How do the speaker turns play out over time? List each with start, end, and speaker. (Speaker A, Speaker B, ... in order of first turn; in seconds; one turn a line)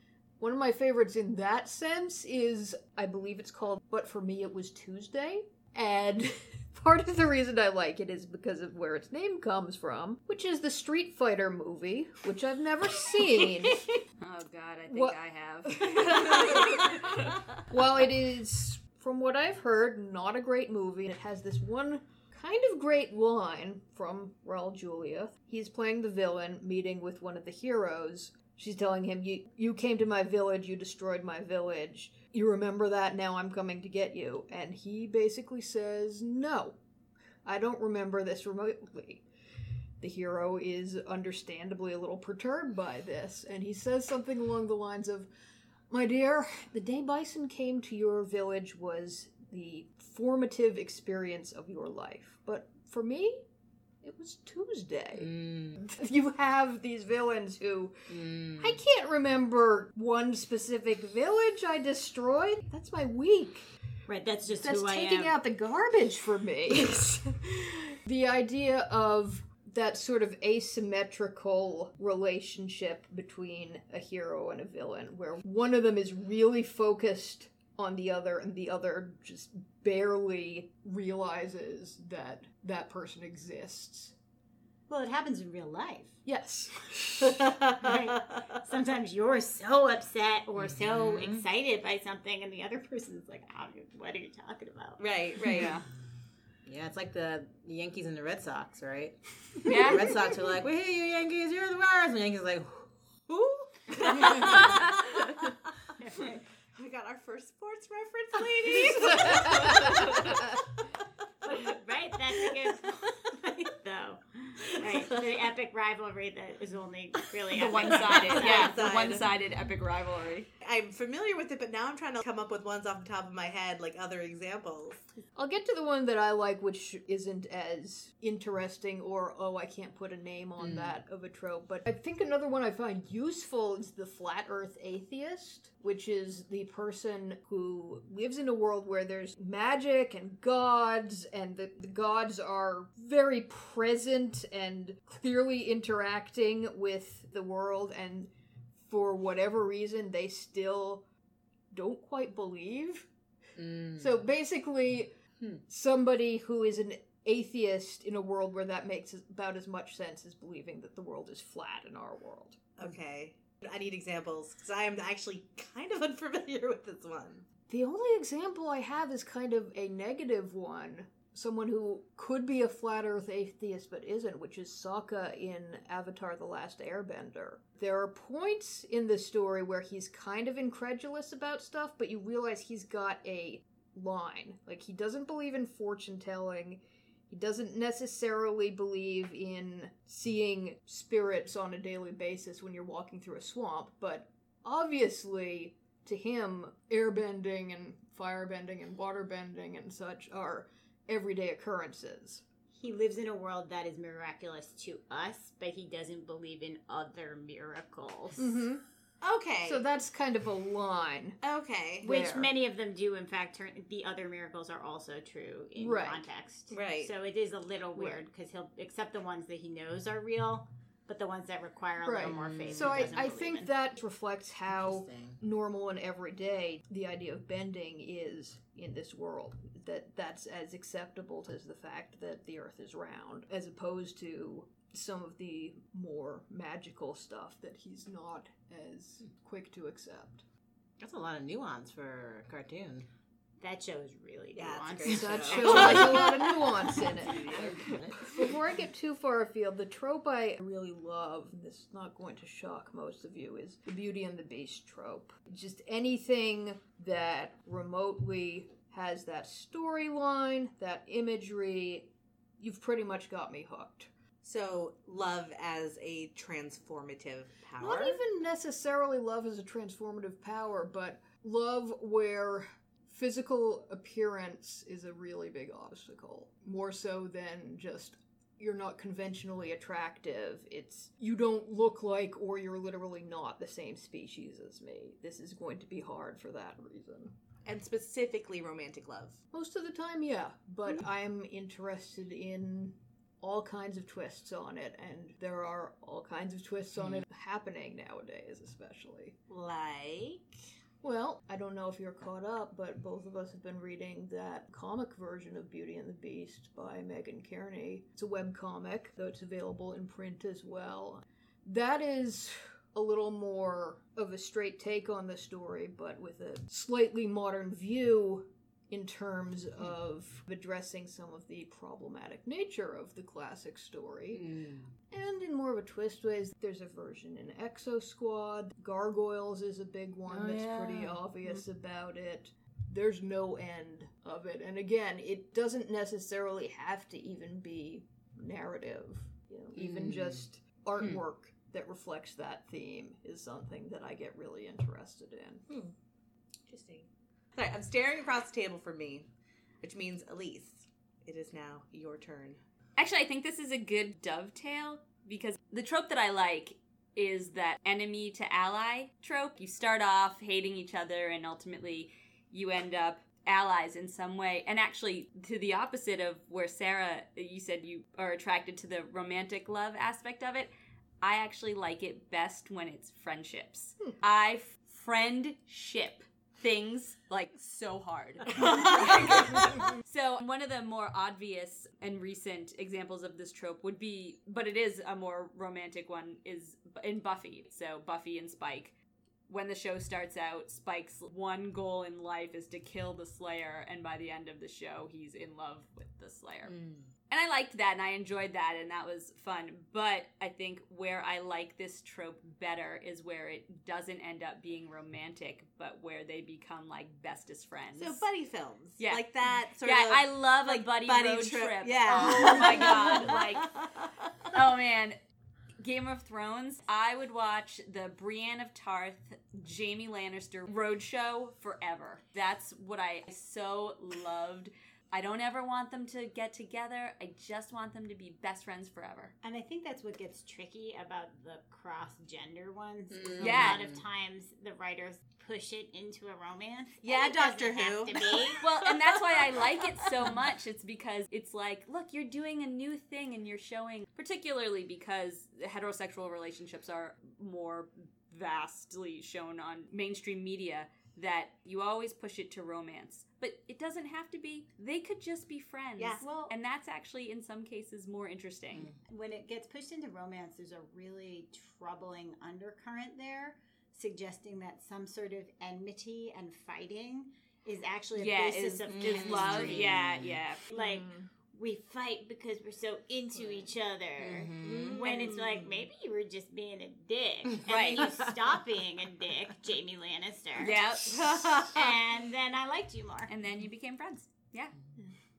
Speaker A: 0.4-14.0
Speaker B: 14.2-17.6
Speaker A: 14.9-36.8
Speaker A: 37.4-39.2
Speaker A: 40.0-45.3
Speaker A: 45.9-53.4
Speaker A: 54.0-63.7
Speaker C: 55.2-55.8
Speaker C: 58.1-58.8
Speaker D: 64.1-65.3
Speaker A: 64.6-84.1
Speaker D: 84.9-86.1
Speaker A: 86.2-87.4
Speaker E: 87.2-88.5
Speaker D: 87.8-95.0
Speaker C: 90.6-91.4
Speaker E: 95.0-95.8
Speaker B: 95.5-95.8
Speaker C: 96.7-104.6
Speaker B: 99.7-100.1
Speaker E: 104.1-104.7
Speaker D: 104.3-104.5
Speaker D: 106.0-106.4
Speaker E: 106.7-110.5
Speaker A: 108.8-110.5
Speaker D: 111.4-118.8
Speaker B: 117.5-120.5
Speaker E: 117.8-119.3
Speaker E: 120.6-125.0
Speaker A: 125.3-148.3
Speaker C: 130.6-131.0
Speaker A: 148.8-151.0
Speaker A: 151.7-153.1
Speaker C: 153.6-154.1
Speaker A: 153.9-155.1
Speaker A: 155.7-162.6
Speaker E: 162.8-167.4
Speaker A: 167.7-202.4
Speaker D: 202.8-208.6
Speaker A: 208.4-208.8
Speaker E: 209.2-209.8
Speaker A: 209.6-211.4
Speaker E: 211.4-212.1
Speaker A: 212.0-212.5
Speaker D: 212.0-223.7
Speaker A: 215.8-216.2
Speaker E: 216.7-217.1
Speaker A: 222.0-240.4
Speaker C: 222.2-223.3
Speaker C: 224.7-225.4
Speaker C: 241.0-243.1
Speaker D: 243.6-246.4
Speaker E: 244.6-248.3
Speaker A: 245.1-264.1
Speaker C: 247.4-248.5
Speaker E: 264.4-268.2
Speaker A: 267.8-287.3
Speaker E: 287.6-289.4
Speaker A: 289.5-299.3
Speaker C: 297.0-297.2
Speaker E: 299.5-300.6
Speaker A: 301.0-324.5
Speaker C: 324.3-324.9
Speaker A: 325.1-345.6
Speaker C: 330.3-331.2
Speaker C: 339.8-340.4
Speaker E: 345.7-345.9
Speaker E: 346.7-349.3
Speaker E: 349.8-352.6
Speaker B: 353.0-388.9
Speaker B: 389.5-396.8
Speaker C: 396.7-397.1
Speaker B: 397.3-408.2
Speaker E: 407.9-414.0
Speaker B: 409.0-413.8
Speaker B: 414.5-415.2
Speaker B: 415.8-429.3
Speaker D: 429.4-438.6
Speaker C: 433.1-434.0
Speaker B: 433.4-433.8
Speaker E: 437.0-439.0
Speaker B: 438.6-458.9
Speaker E: 439.6-440.1
Speaker E: 456.0-456.2
Speaker D: 456.2-456.5
Speaker D: 459.1-470.0
Speaker B: 468.1-470.6
Speaker C: 468.9-470.4
Speaker D: 470.7-483.3
Speaker A: 470.7-471.3
Speaker C: 474.2-475.1
Speaker E: 474.6-475.5
Speaker B: 475.1-475.4
Speaker B: 477.7-478.1
Speaker B: 480.6-482.0
Speaker B: 483.3-484.7